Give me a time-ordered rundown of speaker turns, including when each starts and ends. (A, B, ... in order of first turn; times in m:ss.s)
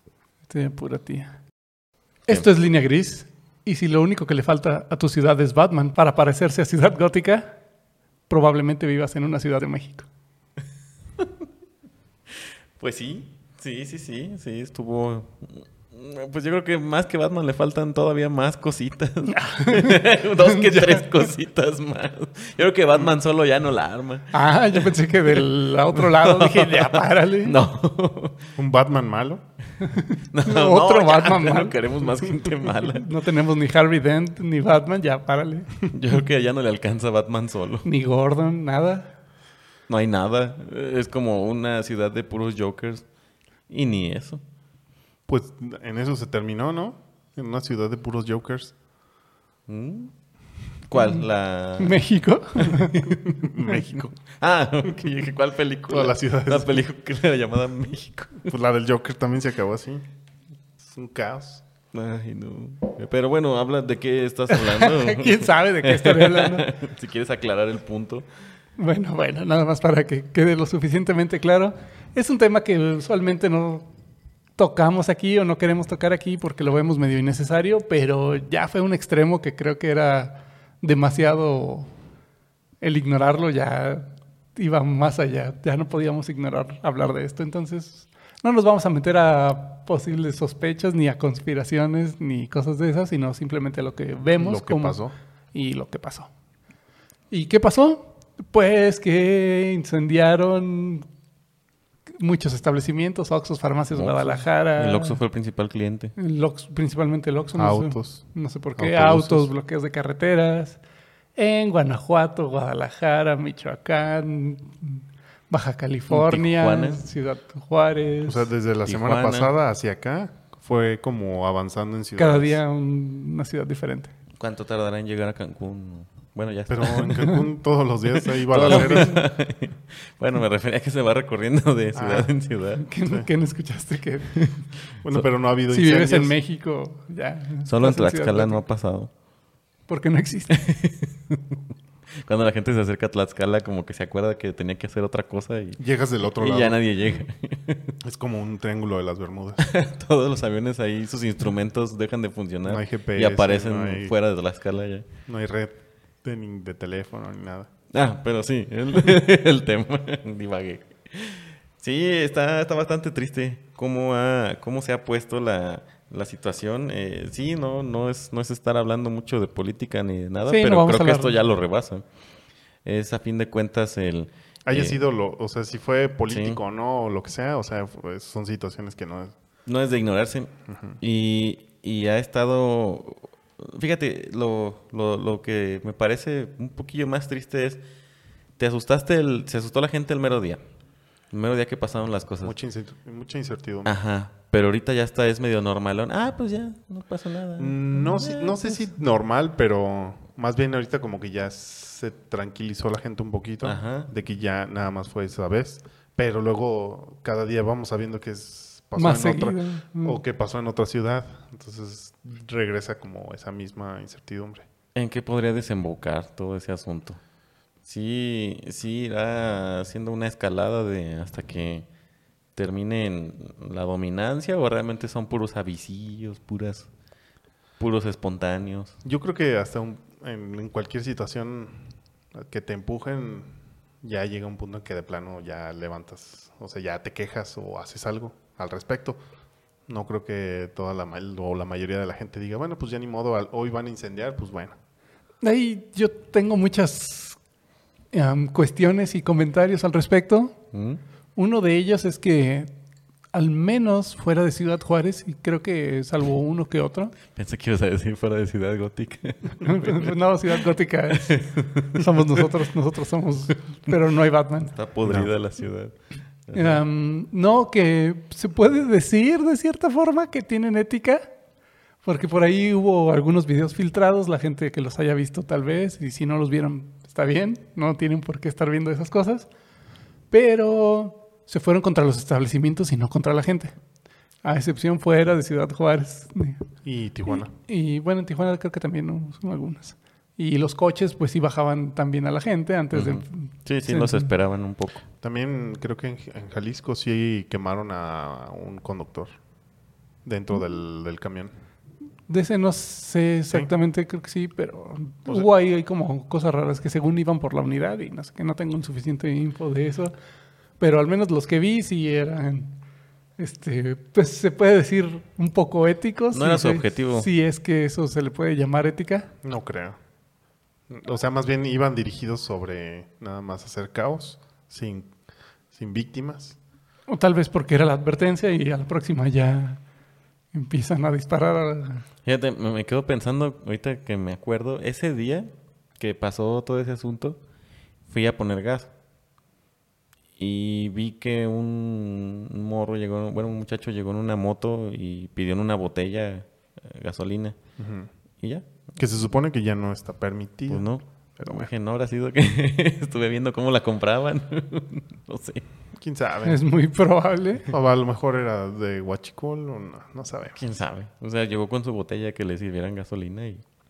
0:00.5-0:01.4 A
0:02.3-0:07.5 A
0:08.3-0:10.1 A
0:12.4-0:28.5 B
0:19.2-0:21.1 A
0:24.3-0:27.6 A
0:28.6-0:29.4 C
0:29.8-0:31.8 A
0:30.3-0:33.1 B
0:32.6-0:35.7 A
0:35.9-0:37.8 B
0:37.8-0:39.1 A
0:39.9-0:43.0 B
0:43.7-0:44.4 B
0:45.3-0:48.7 C
0:49.7-0:50.1 B
0:50.9-0:52.0 B
0:51.8-0:53.5 A
0:53.3-0:54.2 C
0:54.4-0:58.5 B
0:55.9-0:56.8 C
0:58.4-1:00.0 C
1:00.8-1:01.6 C
1:01.9-1:08.3 B
1:04.5-1:06.7 A
1:08.8-1:13.9 A
1:14.6-1:21.9 A
1:22.8-1:35.0 A
1:34.4-1:35.1 C
1:35.5-1:36.3 A
1:37.3-1:41.0 A
1:42.2-1:45.2 A
1:43.9-1:46.1 B
1:46.2-1:50.8 A
1:47.5-1:48.2 C
1:48.8-1:49.5 C
1:51.4-1:58.5 A
1:56.1-1:57.0 B
1:58.2-2:02.6 C
1:58.8-1:59.5 B
2:02.2-2:04.1 A
2:04.4-2:07.4 B
2:06.7-2:09.2 C
2:08.1-2:12.9 B
2:08.7-2:09.1 A
2:11.9-2:12.3 C
2:12.8-2:14.4 A
2:14.3-2:15.2 B
2:15.0-2:16.4 C
2:15.7-2:18.6 A
2:17.6-2:19.1 B
2:19.9-2:20.6 A
2:20.5-2:21.6 B
2:22.2-2:27.9 B
2:25.8-2:26.8 C
2:28.0-2:29.6 C
2:29.6-2:35.1 B
2:32.6-2:34.1 C
2:35.3-2:37.7 C
2:37.9-2:52.0 B
2:50.5-2:51.4 A
2:52.8-2:55.0 B
2:54.6-2:59.3 C
2:56.3-2:56.6 B
2:59.6-3:00.5 B
3:00.7-3:01.0 C
3:01.0-3:07.8 B
3:08.6-3:10.6 B
3:11.3-3:12.5 B
3:12.4-3:14.0 C
3:13.8-3:18.8 B
3:17.6-3:34.6 C
3:23.6-3:24.1 B
3:29.0-3:30.2 A
3:34.9-3:37.2 B
3:37.8-3:41.8 B
3:42.6-3:46.9 B
3:47.8-3:48.9 B
3:49.0-3:51.8 C
3:52.3-3:59.2 C
3:59.9-4:04.7 C
4:05.4-4:07.4 A
4:08.1-4:10.5 A
4:10.7-4:11.0 B
4:11.4-4:12.7 A
4:13.3-4:17.2 A
4:17.3-4:20.1 B
4:19.6-4:21.4 A
4:21.1-4:22.4 B
4:21.9-4:24.8 A
4:24.7-4:25.9 B
4:25.0-4:25.3 C
4:26.5-4:26.8 B
4:26.5-4:31.3 A
4:32.0-4:39.5 A
4:40.3-4:43.7 A
4:44.4-4:46.6 A
4:46.8-4:47.5 C
4:47.3-4:54.3 A
4:52.9-4:55.0 B
4:55.2-4:59.4 C
5:00.2-5:01.5 C
5:02.3-5:10.1 A
5:10.8-5:12.8 A
5:13.4-5:19.3 A
5:16.3-5:17.3 B
5:19.4-5:20.0 C
5:20.9-5:25.1 C
5:25.7-5:26.6 C
5:27.1-5:29.8 A
5:30.5-5:32.0 A
5:32.2-5:37.4 B
5:38.1-5:38.9 B
5:40.4-5:47.6 B
5:47.8-5:48.1 C
5:48.4-5:48.7 B
5:49.0-5:50.8 C
5:50.7-5:55.6 B
5:51.4-5:51.7 C
5:56.0-5:56.6 C
5:56.4-5:57.7 A
5:57.7-6:00.6 C
6:00.6-6:03.6 B